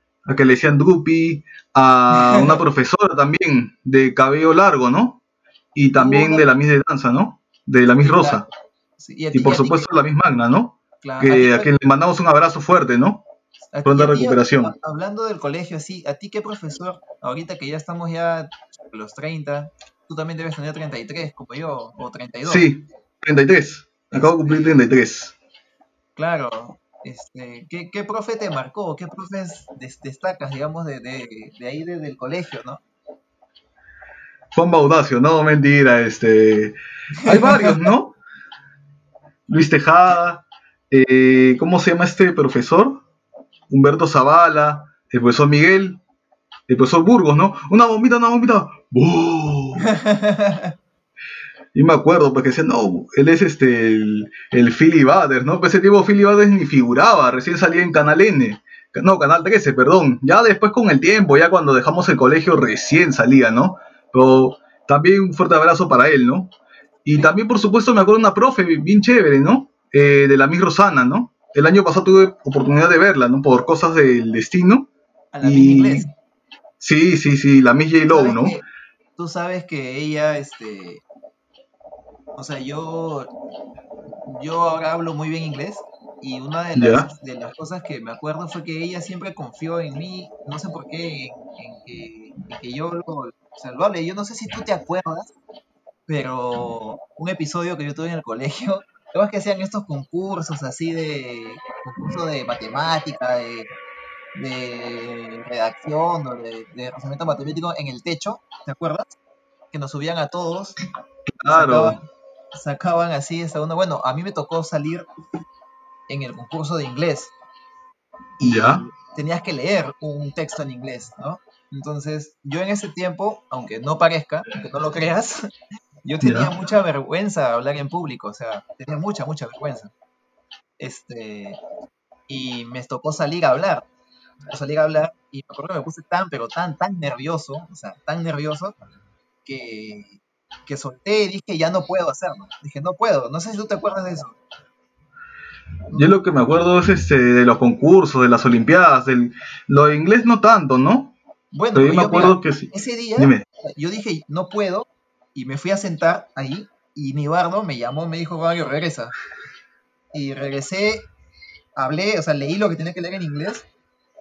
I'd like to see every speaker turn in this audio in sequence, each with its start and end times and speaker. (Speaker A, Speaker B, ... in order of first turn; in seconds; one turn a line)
Speaker A: 0.3-5.2
Speaker B: 2.1-2.6
Speaker A: 5.8-8.5
Speaker B: 6.0-6.5
Speaker B: 8.0-8.5
Speaker B: 9.0-9.9
Speaker A: 9.3-13.2
Speaker B: 11.0-11.7
Speaker B: 13.7-22.7
Speaker A: 13.8-14.7
Speaker A: 22.5-25.4
Speaker B: 24.1-24.8
Speaker B: 26.2-32.8
Speaker A: 34.5-38.2
Speaker B: 37.2-37.9
Speaker A: 39.5-43.0
Speaker A: 43.7-46.0
Speaker A: 46.7-49.9
Speaker B: 49.8-50.7
Speaker A: 51.7-66.5
Speaker A: 67.0-74.9
Speaker B: 75.3-76.1
Speaker A: 75.4-76.0
Speaker A: 76.8-78.6
Speaker B: 78.1-78.6
Speaker B: 79.2-81.0
Speaker B: 82.4-83.3
Speaker B: 84.3-95.3
Speaker A: 86.8-87.1
Speaker B: 96.1-103.7
Speaker B: 104.3-109.2
Speaker B: 109.7-110.8
Speaker A: 111.3-112.0
Speaker B: 111.5-112.0
Speaker B: 112.5-115.1
Speaker B: 116.1-117.3
Speaker B: 118.4-125.5
Speaker A: 118.4-118.8
Speaker B: 126.1-129.9
Speaker A: 126.2-126.5
Speaker B: 130.8-131.6
Speaker B: 132.3-133.8
Speaker B: 134.5-138.8
Speaker B: 139.4-144.4
Speaker A: 145.9-151.2
Speaker B: 151.5-159.1
Speaker A: 151.8-153.4
Speaker B: 160.1-161.1
Speaker B: 161.8-163.7